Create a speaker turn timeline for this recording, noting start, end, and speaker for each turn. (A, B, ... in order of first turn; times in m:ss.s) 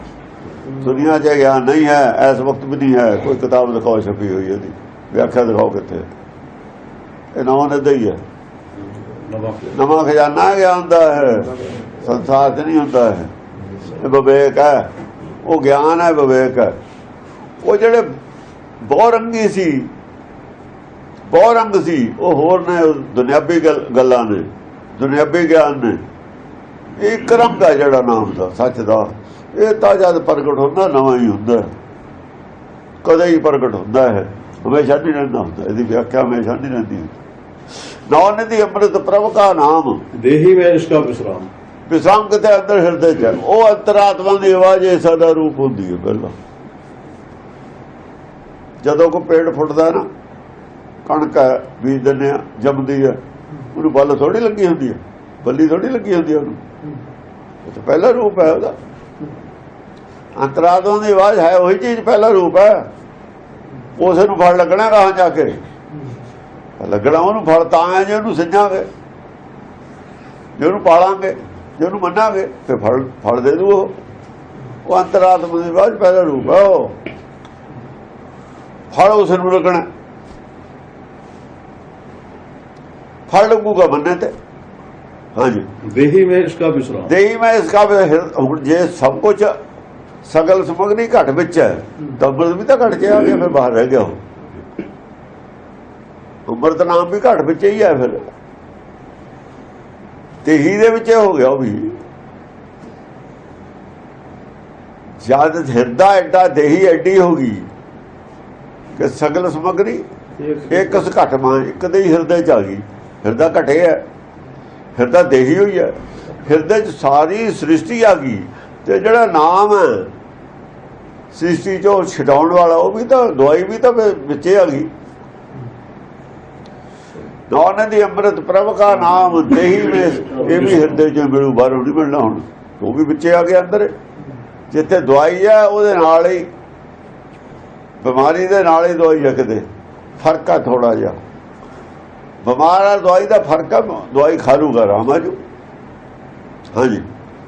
0:00.7-0:06.1 A
0:07.3-0:08.2 A
0:09.1-0:09.7 B
0:09.7-0:13.3 A
0:13.8-0:14.9 A
0:15.4-0:16.7 A
0:17.6-0:18.1 A
0:18.8-0:19.9 A
0:21.3-0:26.0 A
0:27.0-0:31.7 A
0:33.0-0:37.1 A
0:37.7-0:40.0 A
0:40.1-0:41.5 B
0:41.9-0:46.3 A
0:48.8-0:50.0 A
0:51.0-0:53.2 A
0:53.7-0:56.6 A
0:57.6-0:58.8 A
1:00.4-1:02.9 A
1:04.0-1:05.6 A
1:06.8-1:08.9 A
1:10.6-1:13.9 A
1:14.8-1:16.9 A
1:18.9-1:19.8 A
1:23.3-1:24.3 A
1:25.4-1:25.7 A
1:25.8-1:27.1 B
1:27.1-1:29.5 A
1:30.2-1:34.2 A
1:36.4-1:38.2 A
1:40.4-1:42.0 A
1:45.2-1:47.7 A
1:49.0-1:54.0 A
1:55.0-2:00.1 A
2:01.3-2:04.9 A
2:07.5-2:13.9 A
2:14.7-2:16.5 A
2:18.0-2:19.6 A
2:20.2-2:21.2 A
2:22.4-2:25.4 A
2:26.7-2:27.0 A